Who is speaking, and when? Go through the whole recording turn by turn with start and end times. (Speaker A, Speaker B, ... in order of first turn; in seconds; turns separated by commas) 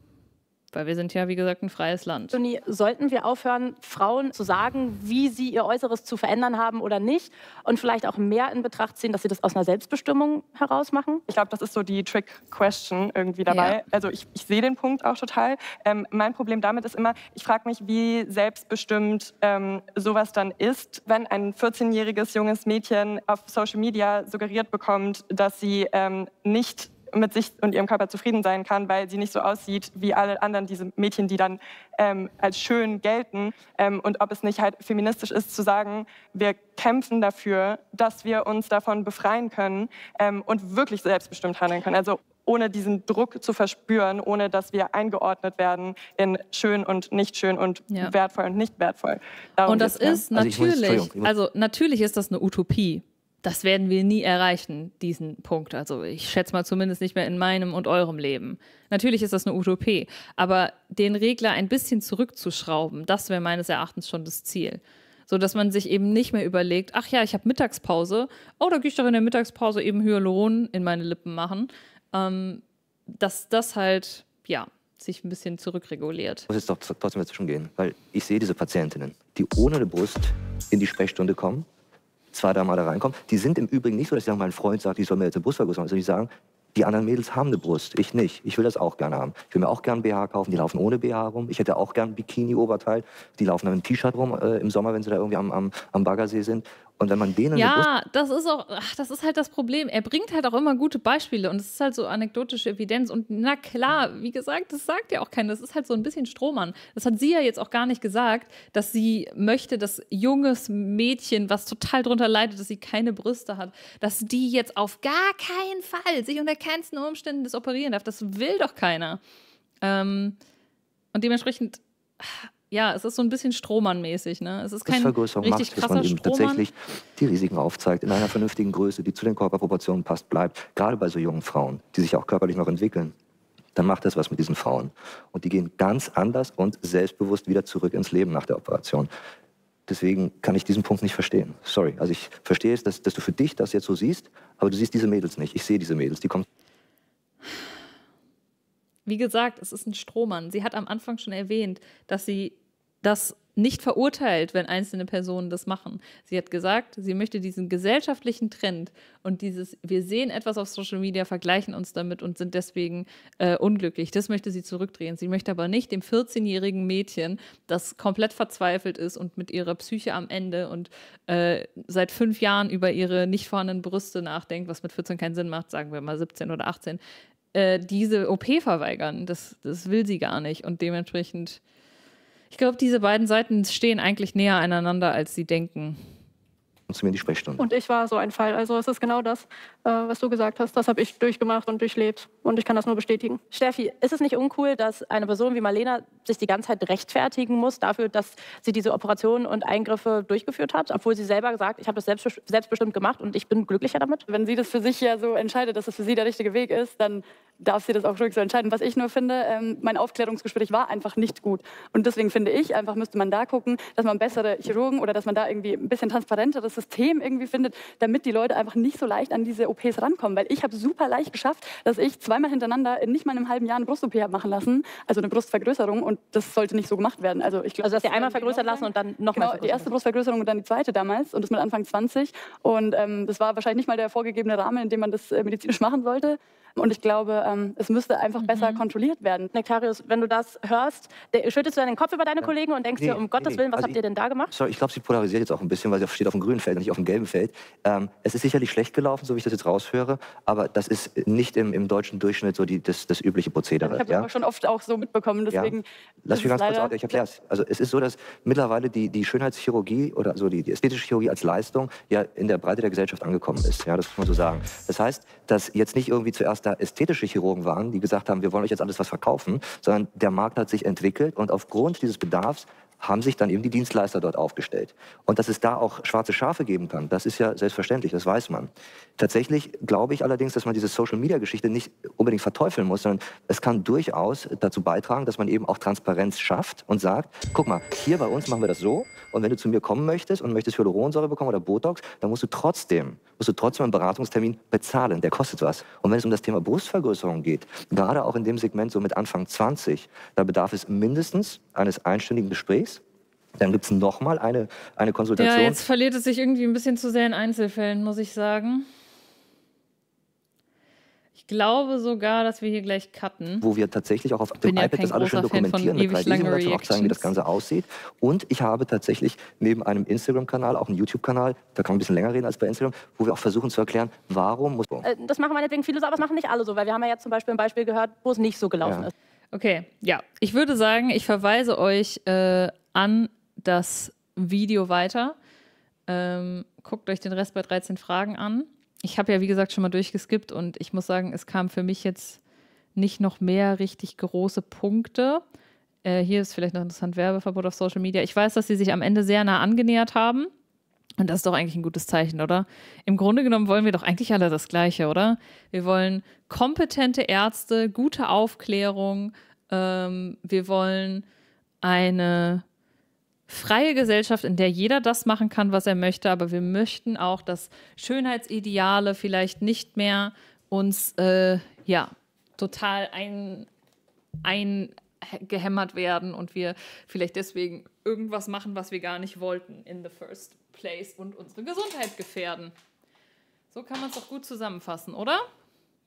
Speaker A: 0.7-2.4, Speaker B: 2.3-11.2, Speaker C: 11.3-50.2, Speaker A: 13.5-13.8, Speaker A: 49.6-76.5, Speaker D: 50.3-51.3, Speaker D: 76.5-81.7, Speaker D: 82.3-97.9, Speaker A: 97.5-119.2, Speaker A: 119.8-120.3, Speaker A: 121.1-126.7, Speaker D: 124.8-133.1, Speaker D: 133.7-139.1, Speaker D: 139.9-146.4, Speaker A: 149.1-177.0, Speaker A: 177.5-181.6, Speaker A: 182.5-186.0, Speaker D: 186.9-187.7, Speaker E: 187.6-193.4, Speaker B: 193.5-204.2, Speaker F: 204.3-239.5, Speaker B: 227.8-229.9, Speaker A: 238.4-238.8, Speaker B: 239.5-244.5, Speaker D: 242.4-244.0, Speaker D: 244.5-254.3, Speaker F: 253.8-257.1, Speaker D: 255.5-303.0, Speaker D: 303.6-305.8, Speaker A: 305.4-308.9, Speaker A: 311.4-313.6, Speaker D: 313.6-325.1, Speaker A: 314.6-317.3, Speaker B: 325.0-329.1, Speaker D: 328.8-329.1, Speaker A: 329.5-335.4, Speaker A: 336.1-342.4, Speaker A: 342.9-345.4, Speaker A: 346.0-350.5, Speaker A: 351.2-361.2, Speaker A: 361.8-362.6, Speaker A: 363.5-373.7, Speaker A: 374.4-382.7, Speaker A: 383.7-385.4